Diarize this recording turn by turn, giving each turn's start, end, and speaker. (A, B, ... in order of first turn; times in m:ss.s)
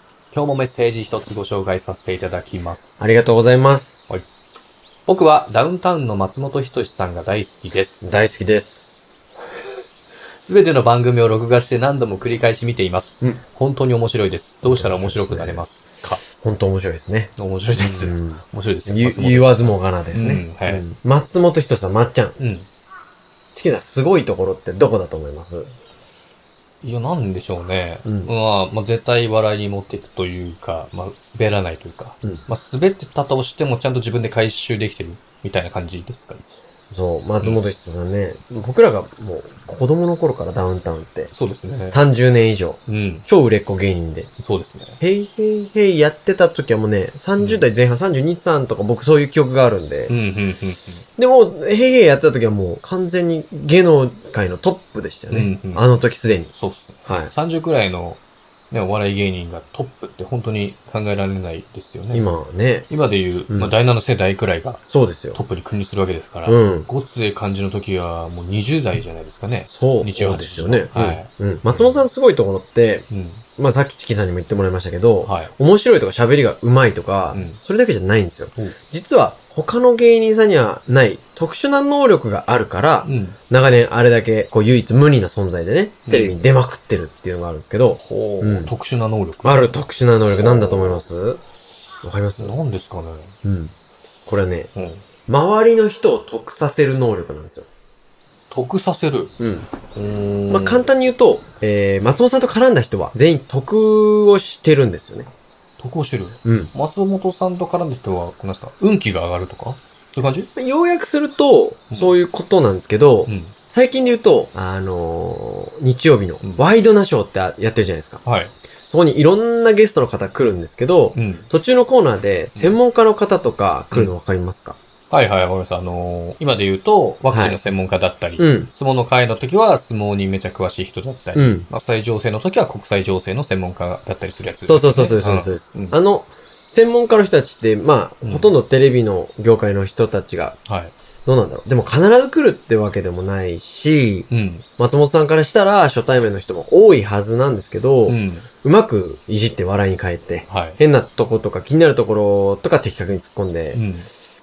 0:00.3-0:03.0 A
0:03.0-0:04.1 B
0:05.1-0:08.1 A
0:08.0-0:09.1 B
0:10.4-0:16.2 A
0:14.6-0:15.6 B
0:16.2-0:22.4 B
0:17.4-0:20.8 A
0:22.4-0:22.7 A
0:23.5-0:25.7 B
0:26.8-0:36.6 A
0:28.0-0:28.3 B
0:36.9-0:41.3 B
0:41.3-0:42.0 A
0:41.9-0:44.3 B
0:42.9-0:43.2 A
0:44.4-0:45.0 A
0:45.0-0:50.1 B
0:47.4-0:47.6 A
0:50.1-0:51.0 A
0:51.2-0:56.5 B
0:55.3-0:55.8 A
0:56.5-1:02.3 A
0:57.0-0:57.3 B
1:02.1-1:02.9 B
1:02.9-1:04.8 A
1:03.5-1:03.7 B
1:04.9-1:05.4 B
1:05.3-1:12.0 A
1:06.4-1:06.9 B
1:09.7-1:28.7 B
1:13.1-1:13.4 A
1:15.2-1:15.5 A
1:23.0-1:23.4 A
1:26.1-1:26.4 A
1:28.0-1:29.7 A
1:29.4-1:31.4 B
1:30.3-1:31.0 A
1:32.0-1:32.5 B
1:32.4-1:33.3 A
1:33.4-1:33.7 B
1:34.3-1:34.7 B
1:34.7-1:35.0 A
1:35.3-1:37.7 B
1:38.5-1:39.3 A
1:39.4-1:39.7 B
1:39.9-1:40.8 A
1:40.5-1:45.3 B
1:45.8-1:50.5 A
1:46.4-1:46.7 B
1:50.6-1:58.2 B
1:53.3-1:53.5 A
1:58.2-1:58.5 A
1:58.9-2:04.8 B
2:01.1-2:01.5 A
2:05.1-2:16.0 A
2:07.3-2:07.6 B
2:08.4-2:08.7 B
2:11.3-2:11.6 B
2:14.6-2:20.6 B
2:18.2-2:18.5 A
2:20.7-2:20.9 A
2:21.2-2:33.8 B
2:24.3-2:24.6 A
2:28.1-2:28.5 A
2:30.5-2:30.8 A
2:33.7-2:34.1 A